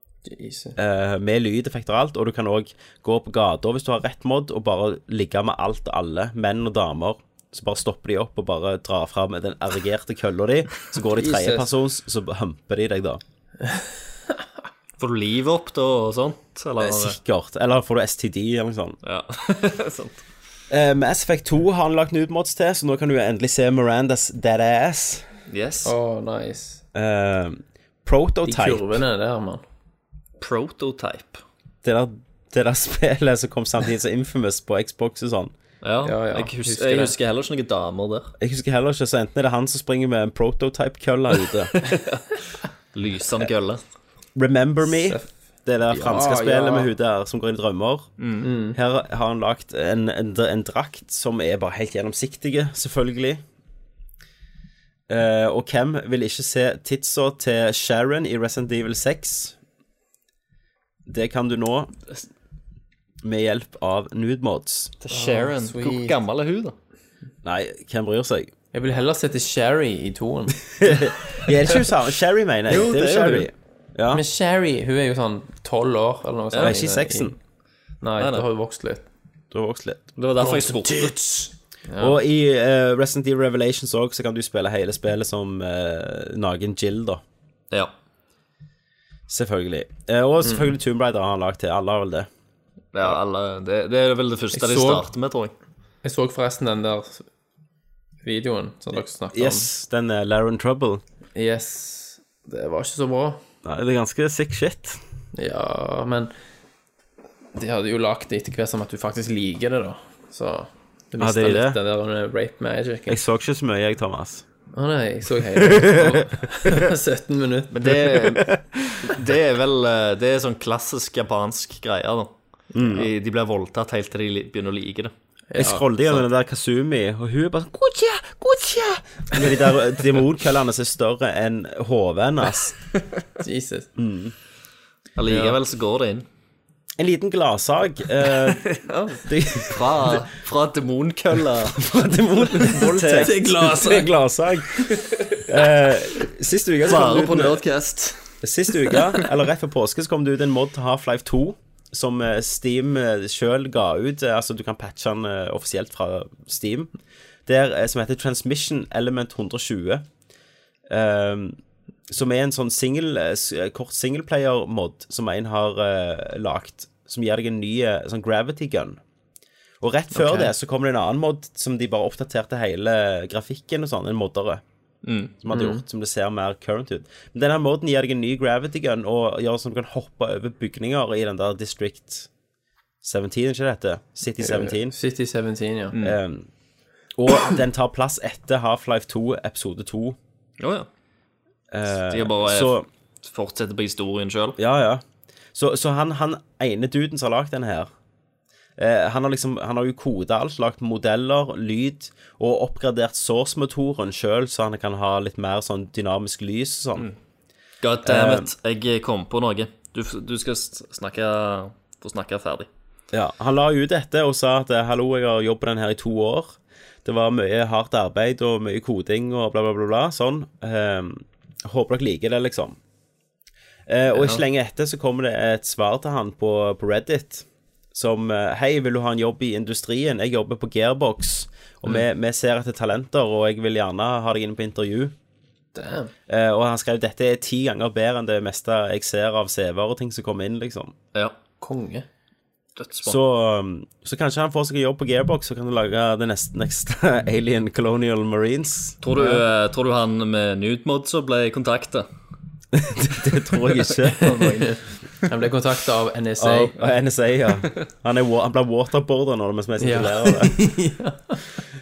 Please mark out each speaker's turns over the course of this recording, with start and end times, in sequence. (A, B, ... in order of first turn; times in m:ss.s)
0:00.2-0:00.8 A
0:00.8-0:13.2 B
0:11.1-0:11.7 A
0:15.0-0:17.2 C
0:16.8-0:19.0 B
0:19.0-0:20.2 C
0:20.7-0:25.2 B
0:25.5-0:25.9 C
0:25.8-0:26.8 A
0:26.9-0:29.0 B
0:28.4-0:29.6 A
0:30.4-0:31.4 C
0:31.8-0:35.5 B
0:35.8-0:38.3 C
0:36.0-0:37.1 A
0:38.4-0:41.7 B
0:42.9-0:43.8 C
0:44.3-0:48.1 B
0:44.9-0:45.4 A
0:45.9-0:46.9 A
0:48.2-0:48.5 C
0:48.4-0:48.8 A
0:48.7-0:53.4 B
0:55.1-0:59.6 B
1:01.1-1:01.9 B
1:03.2-1:04.9 B
1:05.0-1:06.7 C
1:05.1-1:06.2 A
1:07.4-1:08.5 B
1:08.7-1:11.2 A
1:10.8-1:14.2 B
1:12.7-1:13.5 C
1:14.1-1:17.3 A
1:16.6-1:17.4 B
1:18.0-1:19.0 A
1:18.2-1:18.4 C
1:19.5-1:20.0 B
1:20.2-1:21.2 C
1:20.4-1:22.2 A
1:22.0-1:27.2 B
1:29.3-1:32.3 B
1:30.4-1:30.7 A
1:32.9-1:35.5 C
1:34.5-1:35.1 A
1:36.0-1:37.2 A
1:38.2-1:39.7 A
1:39.3-1:41.0 B
1:41.3-1:43.4 A
1:43.6-1:45.0 B
1:45.3-1:46.3 A
1:47.5-1:53.2 A
1:51.2-1:51.8 B
1:53.1-1:54.4 B
1:54.7-1:57.7 A
1:55.6-1:56.7 B
1:57.7-2:02.3 C
1:57.8-1:59.1 B
2:02.7-2:03.1 B
2:02.9-2:05.1 C
2:05.5-2:06.2 A
2:05.6-2:12.8 B
2:13.4-2:13.9 A
2:14.0-2:14.3 B
2:15.2-2:16.2 C
2:15.2-2:15.6 A
2:17.0-2:18.6 B
2:18.4-2:21.8 C
2:19.2-2:20.3 B
2:21.7-2:24.8 B
2:22.6-2:23.5 C
2:23.1-2:24.1 A
2:25.4-2:27.6 B
2:26.8-2:29.3 C
2:28.4-2:36.9 B
2:37.4-2:40.0 B
2:40.9-2:41.6 B
2:42.1-2:49.0 B
2:49.8-2:54.6 B
2:50.1-2:50.5 A
2:55.0-2:55.3 C
2:55.4-3:02.3 B
2:55.5-2:55.8 A
3:03.0-3:04.9 B
3:04.4-3:06.0 A
3:06.0-3:06.5 B
3:07.2-3:10.2 B
3:10.6-3:10.9 C
3:11.7-3:12.8 B
3:12.1-3:14.6 C
3:14.6-3:15.0 B
3:15.5-3:17.9 B
3:18.8-3:27.1 B
3:27.8-3:32.7 C
3:28.0-3:28.5 B
3:33.1-3:42.8 B
3:43.9-3:55.1 B
3:44.1-3:44.4 C
3:55.7-3:56.1 A
3:56.3-4:00.9 B
4:01.6-4:02.1 A
4:02.8-4:03.2 C
4:03.0-4:09.0 B
4:09.0-4:12.1 C
4:09.2-4:09.4 A
4:12.7-4:14.3 B
4:13.9-4:14.8 C
4:14.2-4:16.8 A
4:16.4-4:20.7 B
4:19.8-4:21.4 A